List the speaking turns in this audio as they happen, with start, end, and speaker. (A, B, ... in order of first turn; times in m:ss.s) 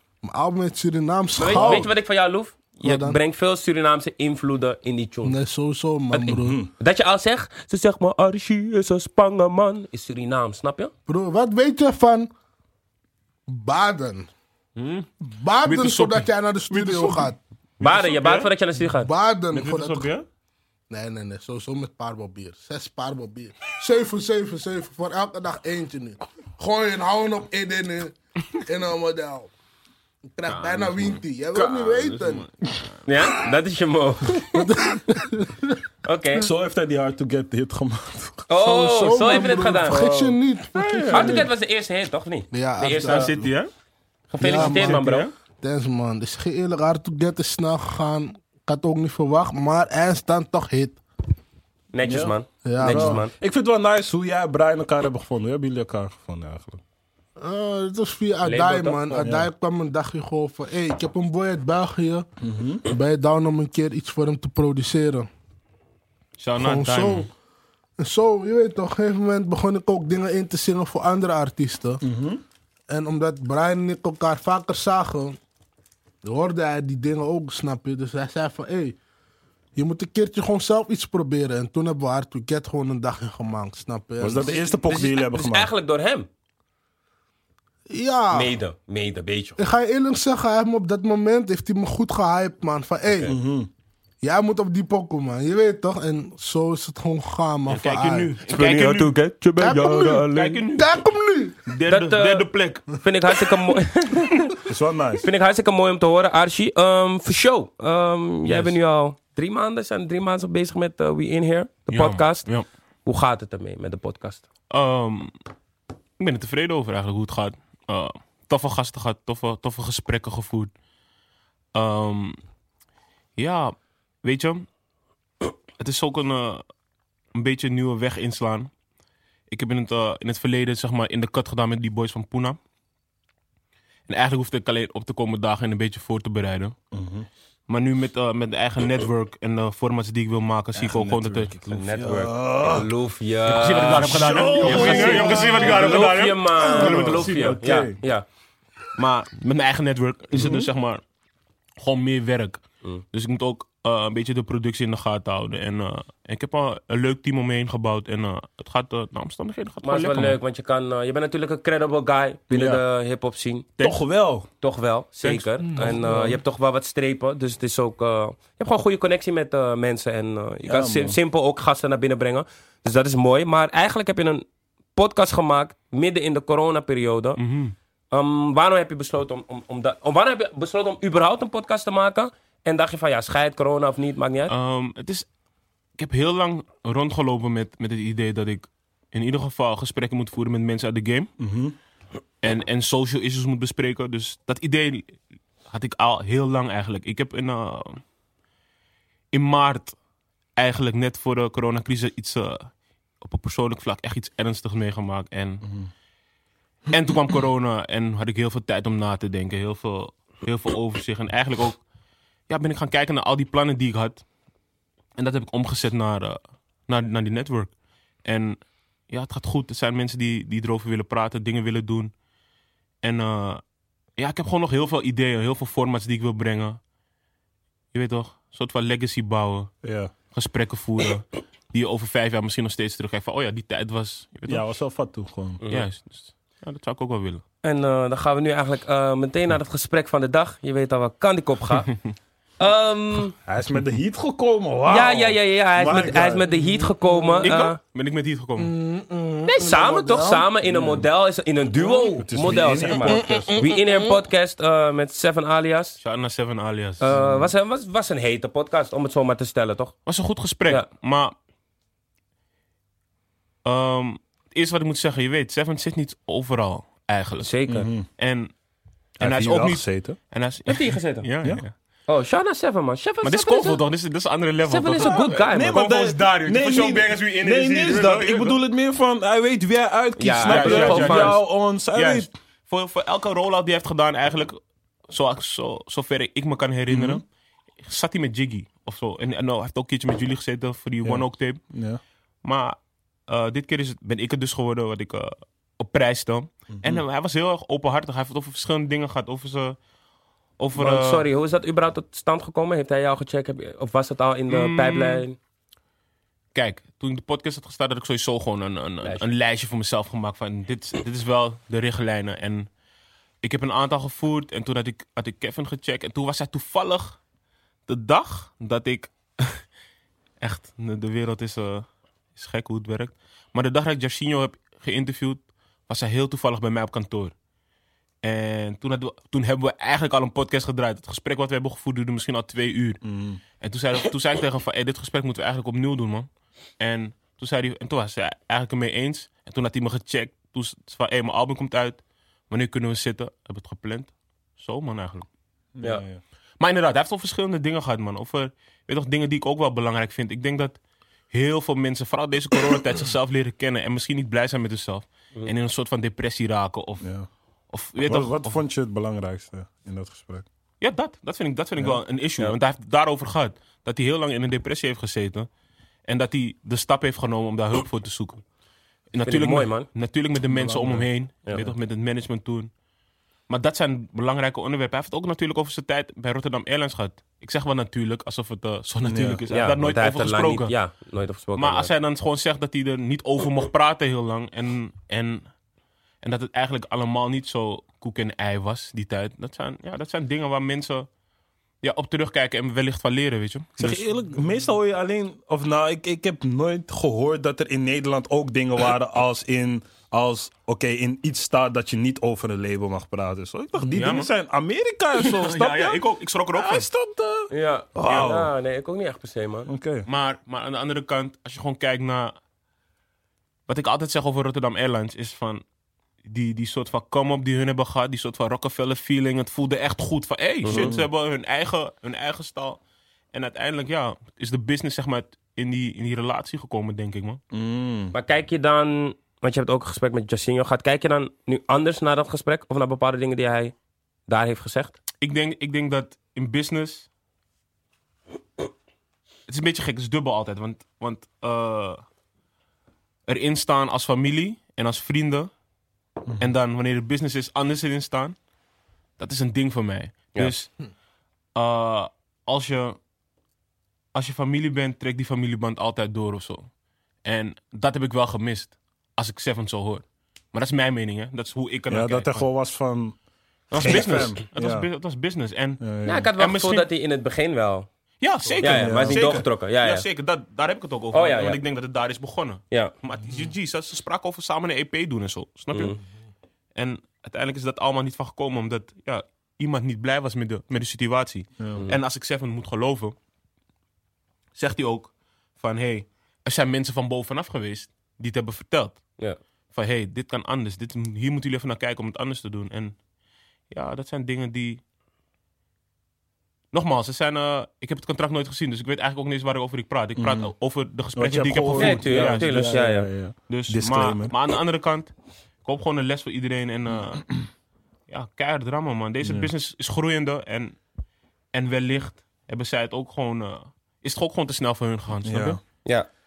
0:00.2-0:01.9 A
0:01.4-0:05.4 B
0:01.5-0:01.9 C
0:02.8-0:03.2 A
0:05.2-0:06.6 A
0:06.1-0:10.9 B
0:06.3-0:06.7 C
0:11.1-0:12.3 A
0:13.5-0:14.3 A
0:14.8-0:15.1 D
0:15.3-0:17.4 A
0:15.6-0:18.5 D
0:17.8-0:19.1 B
0:18.9-0:20.1 A
0:19.5-0:20.2 D
0:20.9-0:29.5 A
0:30.4-0:32.4 A
0:30.4-0:33.0 D
0:33.0-0:34.7 B
0:34.4-0:35.8 A
0:36.0-0:36.5 B
0:36.3-0:38.4 C
0:38.5-0:40.0 B
0:38.6-0:41.5 A
0:39.9-0:41.5 C
0:41.1-0:43.3 B
0:42.5-0:43.5 A
0:42.9-0:43.7 D
0:44.3-0:45.3 B
0:44.4-0:45.1 A
0:44.5-0:45.3 D
0:45.6-0:51.0 A
0:51.9-0:53.3 B
0:52.0-0:56.8 C
0:52.6-0:53.2 A
0:57.4-1:02.2 A
0:58.4-0:59.2 B
0:59.2-0:59.5 C
1:02.4-1:02.8 C
1:02.8-1:05.3 A
1:06.4-1:07.3 D
1:06.6-1:07.3 A
1:08.0-1:12.0 A
1:12.0-1:12.4 C
1:12.9-1:15.4 A
1:16.2-1:19.0 A
1:19.8-1:24.7 A
1:24.2-1:25.7 C
1:24.8-1:26.3 B
1:27.9-1:28.5 A
1:28.3-1:29.6 B
1:29.6-1:33.4 A
1:33.2-1:33.7 C
1:34.2-1:38.3 A
1:37.7-1:39.2 D
1:38.5-1:40.5 C
1:39.6-1:41.6 A
1:40.3-1:41.0 D
1:41.7-1:42.9 D
1:41.9-1:44.6 B
1:44.6-1:45.3 C
1:45.2-1:52.4 B
1:48.4-1:48.7 D
1:51.9-1:52.7 D
1:53.0-1:54.4 B
1:54.7-1:55.3 D
1:56.2-2:00.7 D
2:01.7-2:02.4 D
2:03.4-2:04.6 D
2:05.8-2:06.6 D
2:07.3-2:08.7 D
2:09.5-2:12.6 D
2:14.1-2:16.8 D
2:16.9-2:17.3 C
2:17.7-2:21.9 D
2:20.7-2:22.9 C
2:21.7-2:28.2 B
2:23.5-2:27.6 D
2:24.0-2:28.0 C
2:28.9-2:31.0 D
2:30.3-2:30.7 C
2:31.8-2:32.6 D
2:33.1-2:40.4 D
2:39.8-2:43.7 B
2:42.5-2:42.8 C
2:43.8-2:44.5 C
2:44.6-2:57.4 B
2:45.2-2:45.9 D
2:45.6-2:46.0 A
2:45.8-2:46.4 C
2:50.6-2:51.2 C
2:57.4-2:57.7 D
2:58.1-3:04.5 B
3:04.5-3:05.2 D
3:06.0-3:11.3 D
3:11.4-3:11.8 C
3:12.4-3:15.1 D
3:15.7-3:18.0 D
3:19.3-3:19.9 D
3:20.6-3:22.7 D
3:23.2-3:25.6 D
3:25.6-3:25.9 C
3:26.9-3:31.8 D
3:32.5-3:34.2 D
3:35.2-3:37.7 D
3:38.2-3:42.1 D
3:43.0-3:43.6 D
3:44.2-3:46.8 D
3:47.9-3:49.7 D
3:49.8-3:50.1 C
3:50.3-3:54.6 D
3:54.5-3:55.6 C
3:55.6-3:55.9 B
3:55.7-3:57.4 D
3:57.6-4:01.9 B
4:02.6-4:03.4 B
4:03.4-4:06.9 C
4:04.9-4:07.8 B
4:07.0-4:07.5 A
4:07.4-4:08.7 D
4:08.6-4:10.5 A
4:09.5-4:16.0 B
4:10.6-4:11.0 C
4:12.1-4:13.6 C
4:12.9-4:14.2 A
4:16.0-4:17.1 D
4:17.0-4:19.9 B
4:17.1-4:17.5 C
4:20.0-4:21.3 D
4:23.6-4:28.5 D
4:27.4-4:27.9 B
4:27.7-4:28.1 C
4:29.2-4:30.2 C
4:29.2-4:31.7 D
4:30.7-4:31.2 B
4:32.1-4:33.8 B
4:33.2-4:38.6 D
4:34.6-4:35.8 B
4:35.0-4:42.3 C
4:40.2-4:41.4 B
4:40.4-4:47.2 D
4:46.9-4:47.2 C
4:47.8-4:51.6 D
4:51.0-4:52.0 C
4:52.4-4:52.8 D
4:53.3-4:59.8 D
4:56.8-4:57.0 C
5:00.6-5:01.2 D
5:00.8-5:05.4 B
5:04.5-5:05.2 D
5:06.5-5:12.7 D
5:13.4-5:17.2 D
5:17.9-5:19.6 D
5:20.4-5:27.3 D
5:28.2-5:33.0 D
5:33.0-5:33.4 C
5:33.6-5:36.3 D
5:36.8-5:45.2 D
5:45.7-5:46.2 C
5:46.6-5:50.8 D
5:51.3-5:57.1 D
5:57.0-5:57.3 C
5:57.7-5:58.6 D
5:58.0-6:00.4 C
6:00.8-6:05.5 D
6:06.1-6:08.4 D
6:09.1-6:12.7 D
6:09.2-6:09.9 B
6:10.5-6:11.1 C
6:11.4-6:11.7 B
6:13.5-6:20.7 D
6:19.0-6:19.4 C
6:19.5-6:21.9 B
6:21.6-6:25.4 D
6:26.2-6:31.1 D
6:31.8-6:34.0 D
6:33.8-6:46.0 C
6:43.8-6:44.3 D
6:45.2-6:46.9 D
6:46.5-6:48.5 C
6:47.5-6:49.7 B
6:49.7-6:50.0 C
6:50.0-6:52.3 D
6:53.7-6:55.6 D
6:56.2-7:02.8 D
7:00.6-7:00.9 B
7:00.7-7:01.0 C
7:03.3-7:07.4 D
7:07.5-7:08.1 C
7:08.1-7:13.7 B
7:14.3-7:14.9 B
7:15.2-7:17.1 D
7:19.5-7:22.0 D
7:23.3-7:25.5 D
7:26.4-7:28.4 D
7:29.2-7:30.7 D
7:31.6-7:33.0 D
7:34.1-7:36.7 D
7:37.2-7:42.4 D
7:41.9-7:43.2 C
7:43.7-7:45.8 D
7:43.7-7:44.9 C
7:45.8-7:46.3 C
7:46.0-7:47.9 B
7:46.4-7:46.8 D
7:48.2-7:56.0 D
7:48.6-7:50.0 B
7:48.6-7:49.4 C
7:51.1-7:51.6 B
7:55.7-7:56.0 B
7:56.8-8:03.2 D
8:01.6-8:01.8 C
8:04.6-8:09.0 D
8:09.7-8:13.0 D
8:13.7-8:14.8 D
8:16.7-8:22.8 D
8:20.2-8:20.5 C
8:21.2-8:24.3 C
8:21.7-8:23.1 B
8:23.5-8:25.1 D
8:25.6-8:27.4 D
8:28.1-8:30.8 D
8:29.2-8:29.5 C
8:31.5-8:35.6 D
8:35.2-8:35.6 C